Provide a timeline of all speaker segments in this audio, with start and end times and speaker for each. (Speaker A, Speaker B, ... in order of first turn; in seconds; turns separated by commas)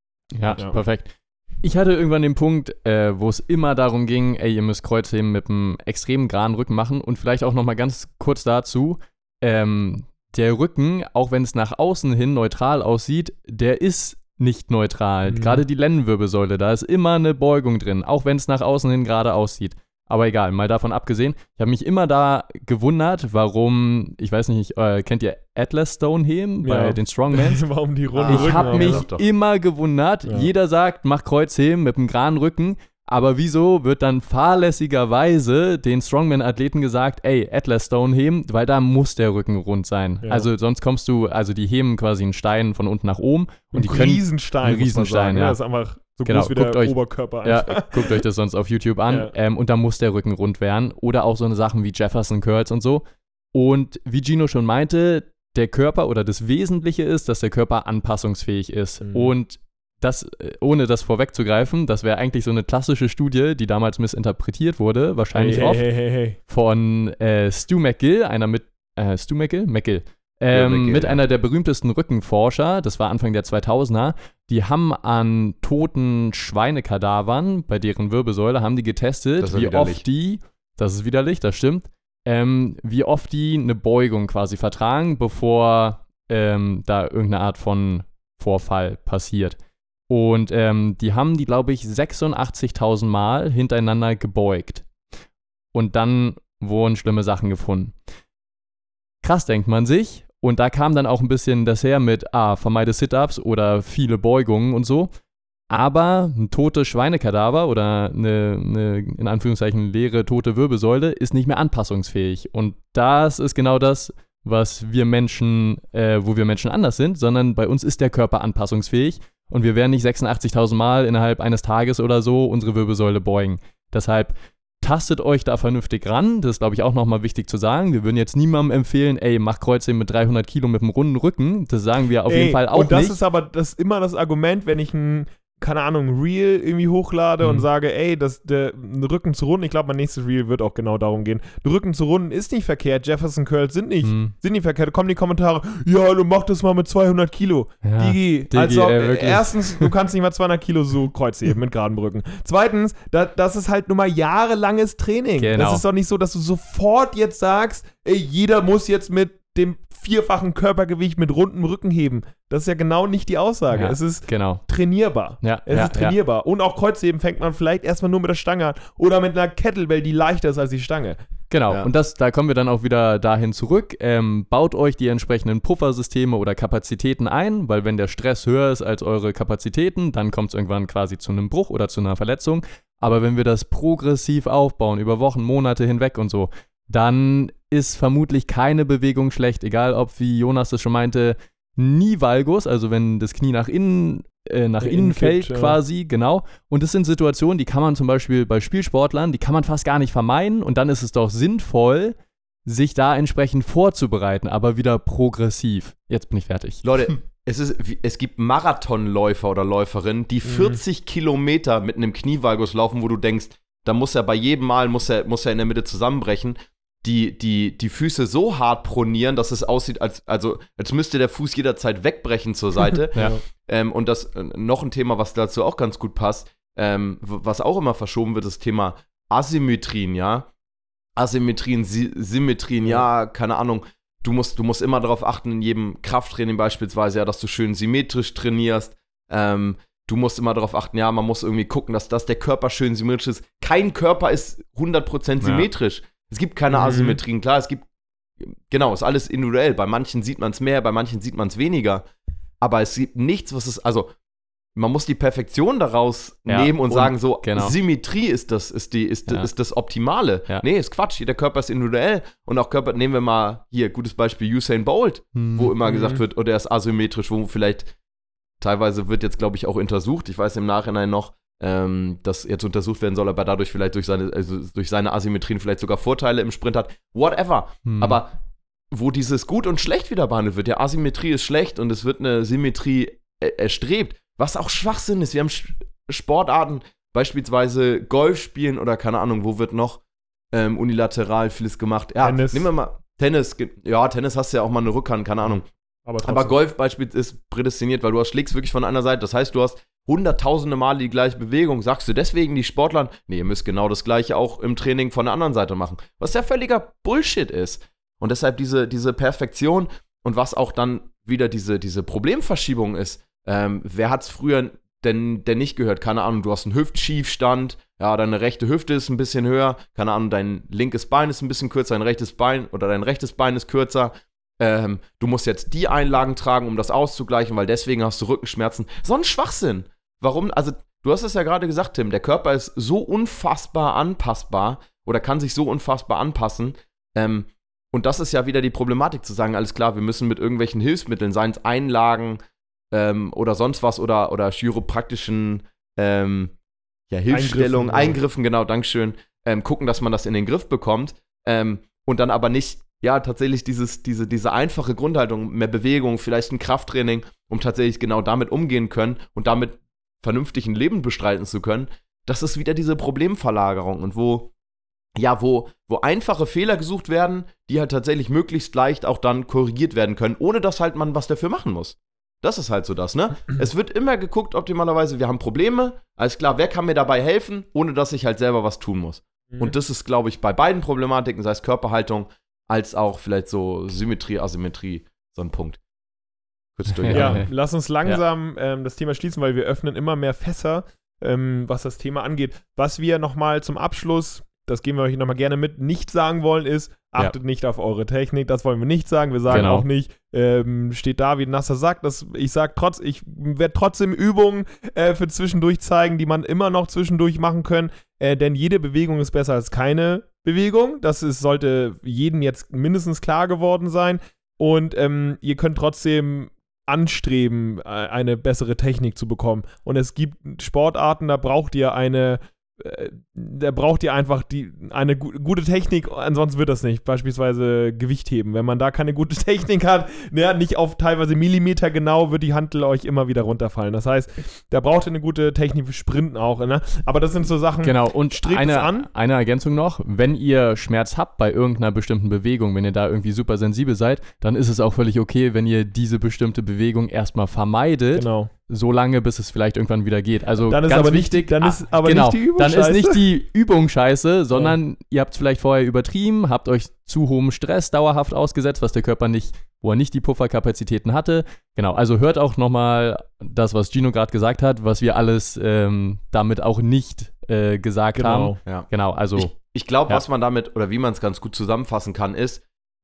Speaker A: 0.3-27.6, Speaker B: 15.3-15.6, Speaker B: 26.6-29.1, Speaker C: 28.1-29.2, Speaker A: 28.3-45.6, Speaker B: 30.3-30.5, Speaker B: 40.2-40.5, Speaker B: 43.7-48.2, Speaker A: 46.3-53.0, Speaker B: 49.1-49.3, Speaker A: 53.5-65.9, Speaker B: 59.0-59.3, Speaker B: 65.3-66.4, Speaker A: 66.5-89.6, Speaker C: 70.5-71.2, Speaker C: 79.4-80.0, Speaker A: 90.1-94.9, Speaker A: 95.7-97.9, Speaker A: 99.2-105.1, Speaker A: 105.7-133.2, Speaker B: 132.3-171.2, Speaker A: 137.4-137.7, Speaker A: 144.0-144.3, Speaker A: 147.8-149.9, Speaker A: 155.4-155.8, Speaker A: 163.7-164.6, Speaker A: 165.4-166.2, Speaker A: 171.5-202.2, Speaker B: 194.8-195.8, Speaker A: 202.7-206.8, Speaker C: 206.8-230.5, Speaker B: 210.4-210.8, Speaker B: 223.2-223.4, Speaker C: 231.2-247.9, Speaker A: 245.4-245.7, Speaker B: 246.7-247.2, Speaker C: 248.4-252.1, Speaker C: 252.6-254.1, Speaker C: 254.8-267.9, Speaker A: 256.5-257.8, Speaker A: 265.4-265.7, Speaker B: 265.9-266.2, Speaker C: 268.6-278.3, Speaker A: 277.9-278.2, Speaker C: 278.9-290.0, Speaker C: 290.5-295.7, Speaker B: 292.2-292.7, Speaker B: 296.1-296.6, Speaker C: 296.2-342.4, Speaker C: 342.9-346.5, Speaker C: 347.1-364.5, Speaker B: 347.3-348.2, Speaker C: 365.2-385.8, Speaker C: 386.8-387.5, Speaker A: 386.9-387.5, Speaker B: 387.1-439.1, Speaker A: 399.5-399.9, Speaker A: 437.8-469.6, Speaker B: 448.1-448.5, Speaker B: 450.6-453.2, Speaker B: 468.2-468.6, Speaker C: 468.6-472.6